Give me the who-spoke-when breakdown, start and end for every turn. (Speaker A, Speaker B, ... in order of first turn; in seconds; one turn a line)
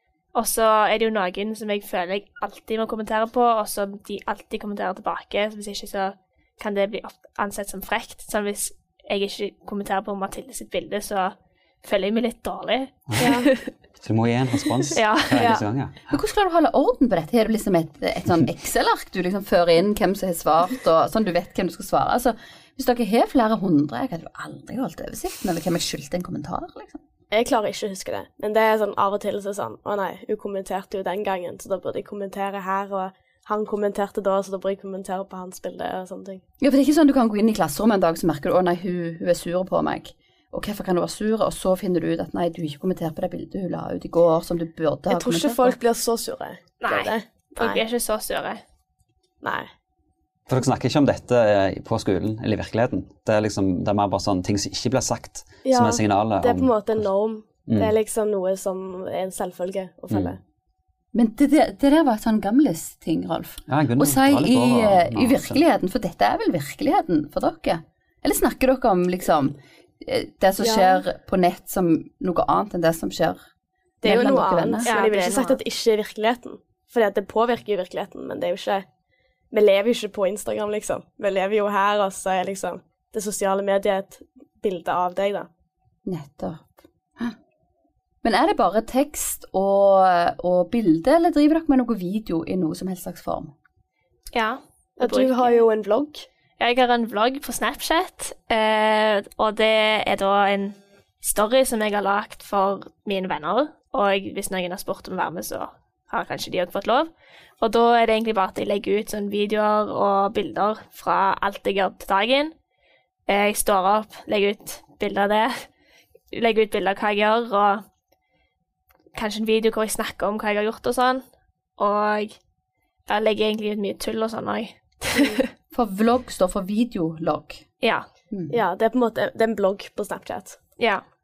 Speaker A: 0.3-13.6
Speaker B: 13.2-13.5
Speaker C: 14.0-16.2
Speaker A: 14.9-15.6
Speaker B: 15.4-15.7
Speaker D: 16.1-27.0
Speaker B: 27.3-36.4
Speaker D: 36.6-45.8
Speaker B: 45.1-47.8
Speaker A: 46.8-48.6
Speaker B: 49.4-49.7
Speaker C: 50.5-57.0
Speaker B: 55.6-60.4
Speaker C: 57.7-58.0
Speaker D: 61.1-73.4
Speaker C: 63.7-65.6
Speaker B: 70.6-71.0
Speaker D: 74.0-74.9
Speaker B: 74.0-78.8
Speaker A: 74.8-75.6
Speaker B: 79.5-85.5
Speaker D: 86.0-87.3
Speaker D: 88.2-93.5
Speaker A: 94.3-95.6
Speaker B: 95.0-96.2
Speaker A: 96.6-112.5
Speaker A: 113.3-115.7
Speaker A: 116.3-117.8
Speaker A: 119.1-121.2
Speaker A: 121.8-122.3
Speaker A: 123.1-125.4
Speaker D: 125.7-127.6
Speaker A: 127.8-128.1
Speaker D: 128.3-128.6
Speaker B: 128.5-130.6